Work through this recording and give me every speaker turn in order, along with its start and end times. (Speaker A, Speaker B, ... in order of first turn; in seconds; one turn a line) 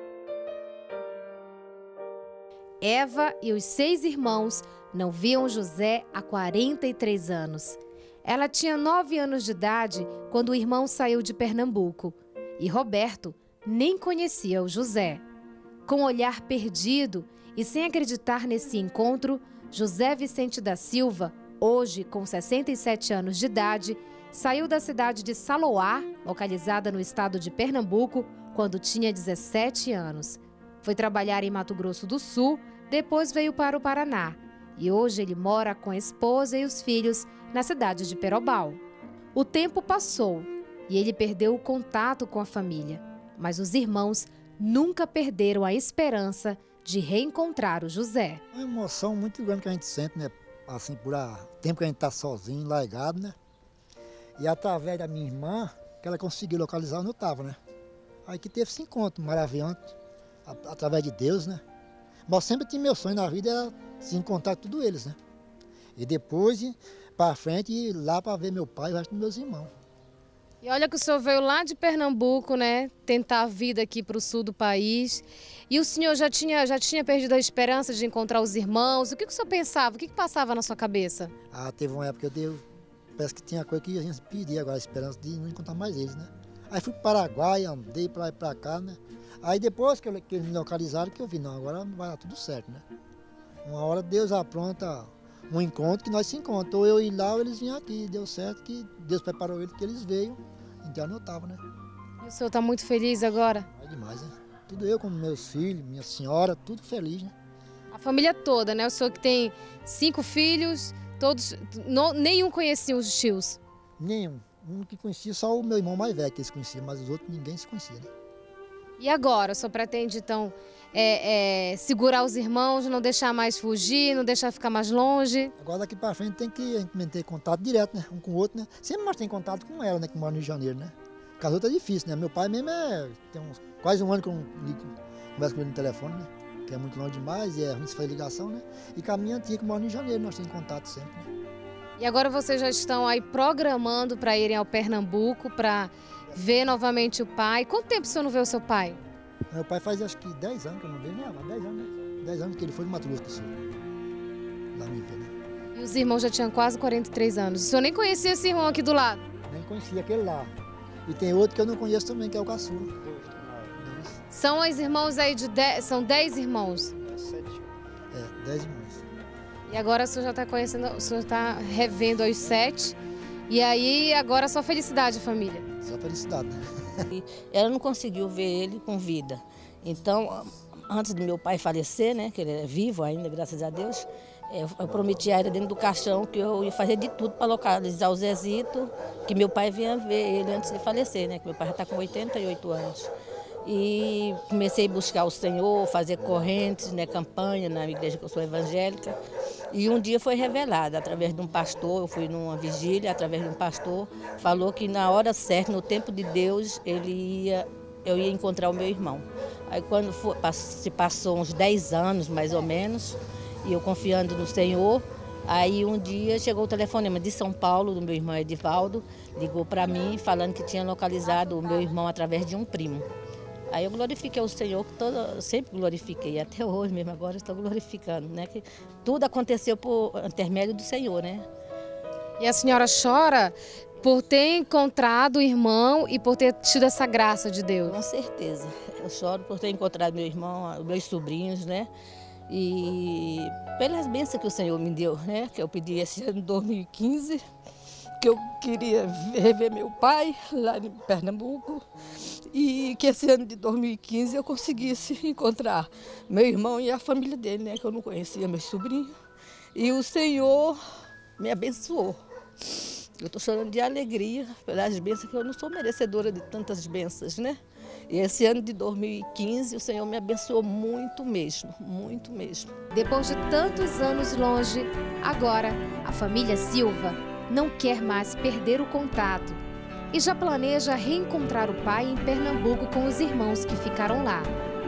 Speaker A: 2.8-15.2
Speaker A: 15.8-38.8
Speaker A: 39.3-48.4
Speaker B: 48.5-53.4
Speaker B: 54.4-57.6
Speaker B: 58.2-61.6
Speaker B: 62.3-65.2
Speaker B: 66.0-69.7
Speaker A: 70.6-81.3
Speaker B: 81.5-82.6
Speaker B: 83.2-92.8
Speaker B: 93.6-101.6
Speaker A: 102.2-103.7
Speaker B: 103.6-107.3
Speaker A: 107.9-113.6
Speaker B: 114.0-118.1
Speaker A: 119.0-125.5
Speaker B: 125.6-141.3
Speaker A: 142.0-149.0
Speaker B: 149.5-153.7
Speaker B: 154.7-155.3
Speaker A: 155.7-159.2
Speaker B: 159.5-160.5
Speaker B: 161.1-164.2
Speaker A: 164.3-166.9
Speaker B: 167.2-167.5
Speaker B: 168.1-169.0
Speaker A: 169.7-173.0
Speaker A: 173.5-175.7
Speaker B: 175.8-177.0
Speaker C: 177.1-193.1
Speaker C: 193.6-199.2
Speaker C: 199.7-223.1
Speaker C: 223.7-231.4
Speaker A: 232.4-238.0
Speaker C: 237.8-241.9
Speaker C: 242.5-247.4
Speaker C: 248.2-259.1
Speaker C: 259.7-260.8
Speaker C: 261.4-267.6
Speaker C: 268.1-272.7
Speaker A: 272.9-279.6
Speaker A: 280.1-284.5